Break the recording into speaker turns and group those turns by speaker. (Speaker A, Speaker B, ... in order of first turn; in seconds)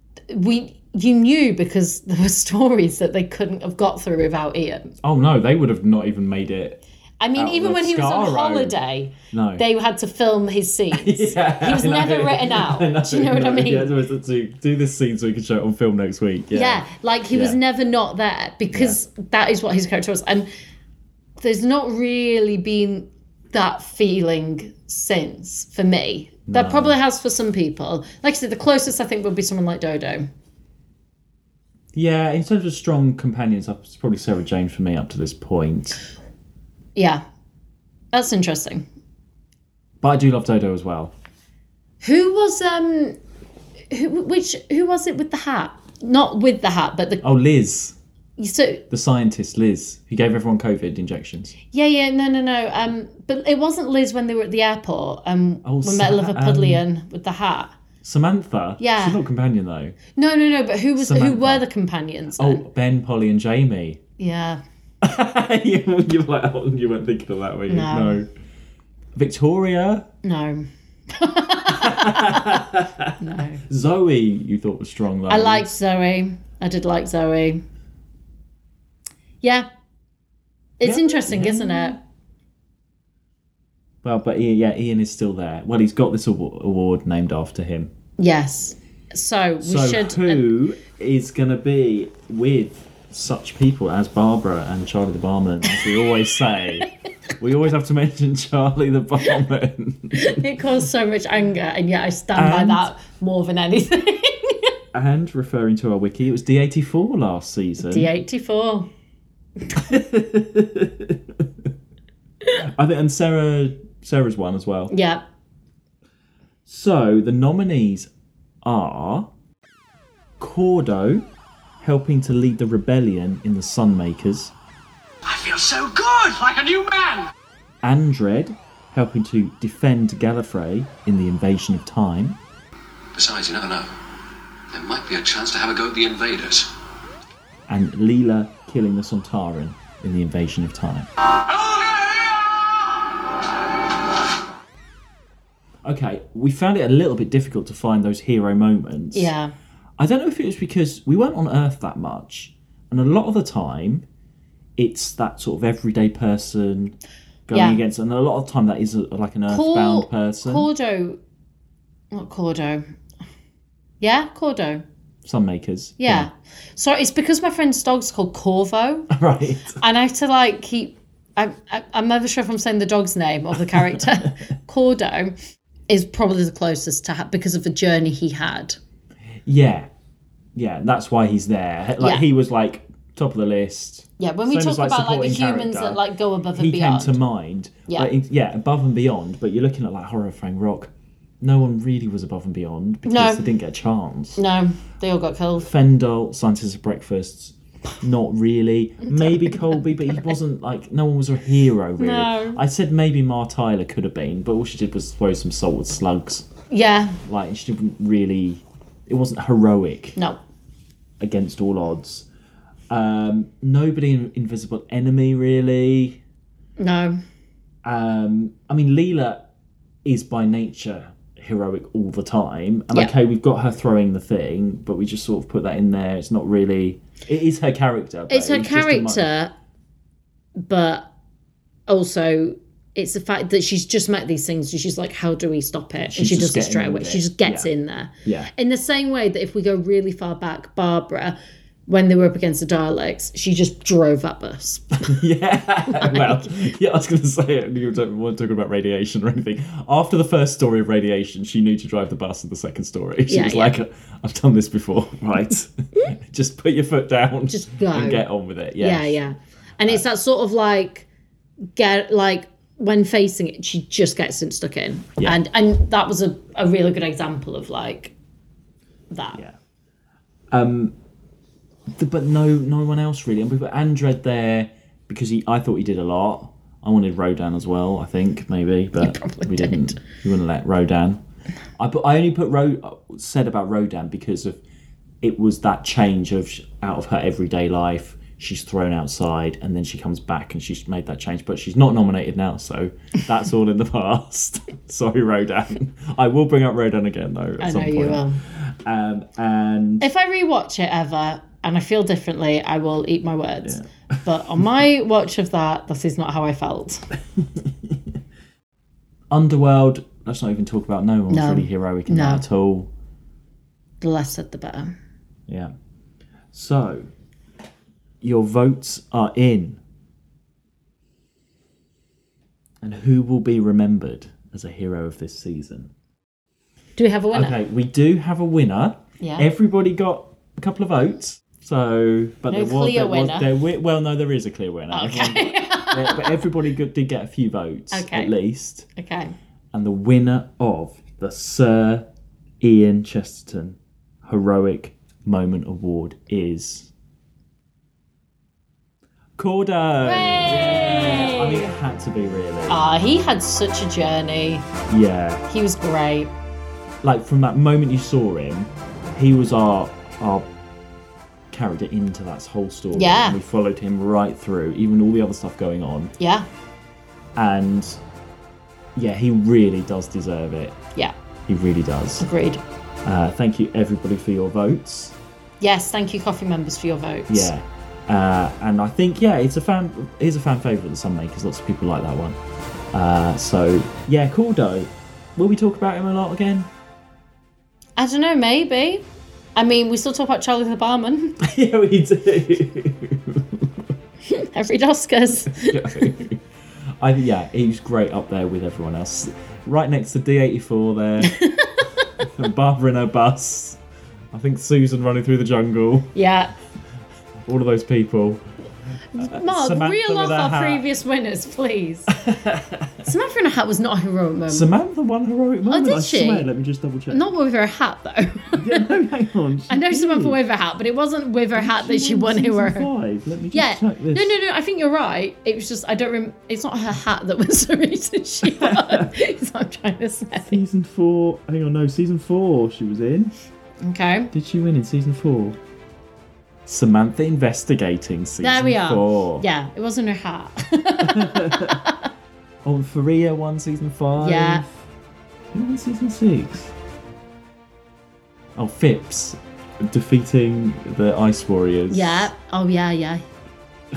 Speaker A: 0.3-4.9, 7.2-13.9, 16.5-20.5, 21.4-30.3, 36.9-37.2, 38.1-38.9, 42.0-43.2, 43.9-47.2, 48.4-48.8, 51.7-57.7, 58.8-59.2, 60.1-62.6, 64.2-64.6, 67.7-68.2, 70.2-72.6, 73.2-73.6, 75.3-77.6, 79.4-79.7, 80.8-82.0, 88.2-90.4, 100.1-104.7, 107.8-108.9, 114.9-115.2, 149.1-149.5, 157.5-157.8, 159.5-161.2, 162.1-162.9, 164.0-164.8, 166.0-169.1, 169.7-175.3, 175.9-178.8, 182.0-182.2, 184.2-187.2, 193.1-193.4, 194.3-195.7, 199.0-200.3, 202.0-202.6, 206.7-207.2, 216.8-217.2, 228.3-229.5, 230.6-231.1, 231.9-245.2, 245.9-246.4, 253.3-253.7, 257.5-258.2, 258.8-261.1, 261.8-268.1, 269.1-269.4, 279.0-280.0, 297.6-298.4, 300.0-307.0, 311.3-312.4, 314.0-314.9, 327.0-327.6, 329.2-329.5, 332.5-333.5, 334.9-336.4, 337.9-338.3, 338.9-339.3, 350.0-351.7, 352.7-354.6, 355.5-356.3, 362.9-363.4, 366.2-366.4, 372.2-372.6, 375.6-377.5, 388.0-389.0, 389.6-391.4, 394.3-396.1, 401.3-401.8, 406.1-406.5, 409.1-412.1, 413.0-414.7, 415.7-416.5, 417.1-418.9, 419.7-422.9, 423.5-430.6, 433.8-434.3, 438.4-442.0, 444.2-444.6, 451.9-453.2
Speaker B: 5.0-6.8, 7.3-8.8, 9.3-9.7, 10.9-17.6, 18.7-19.0, 26.5-26.9, 31.9-36.0, 40.0-41.1, 47.2-48.0, 48.9-51.5, 55.6-56.8, 58.0-60.0, 61.0-61.6, 62.3-64.0, 65.0-68.3, 69.1-70.1, 71.7-73.1, 73.7-75.7, 80.8-82.0, 84.0-87.9, 89.6-96.9, 97.4-100.4, 102.3-102.9, 104.9-108.1, 109.7-111.5, 112.6-114.9, 116.7-118.1, 118.6-119.3, 120.4-121.2, 121.8-124.5, 127.8-132.4, 137.7-141.1, 145.8-149.3, 150.0-154.1, 154.8-156.9, 157.5-160.7, 165.2-166.3, 169.1-169.8, 173.7-174.0, 179.4-179.9, 180.5-186.0, 186.5-194.4, 195.6-206.5, 207.3-210.2, 211.2-212.2, 212.9-216.2, 217.8-219.4, 220.0-229.3, 236.1-237.7, 238.2-238.5, 245.0-259.2, 270.5-270.9, 271.9-281.2, 281.8-284.6, 285.2-300.1, 303.6-304.2, 307.6-308.0, 309.3-312.9, 315.5-315.7, 316.5-317.1, 318.2-319.8, 322.8-325.9, 327.3-338.9, 339.7-342.1, 342.6-346.9, 349.4-352.8, 354.9-355.4, 357.0-360.5, 361.5-366.1, 367.3-368.0, 368.9-370.8, 371.5-372.2, 373.0-375.1, 377.3-382.4, 382.9-386.7, 391.4-393.7, 395.4-396.4, 397.0-401.4, 402.2-403.8, 404.3-406.1, 407.4-408.4, 409.2-410.8, 412.2-413.1, 414.5-417.2, 418.5-420.4, 421.5-424.4, 428.4-429.1, 430.5-433.3, 434.3-435.6, 436.6-439.4, 441.0-441.8, 442.6-444.8, 445.5-446.7, 448.6-452.3
Speaker C: 133.1-133.9, 134.7-136.7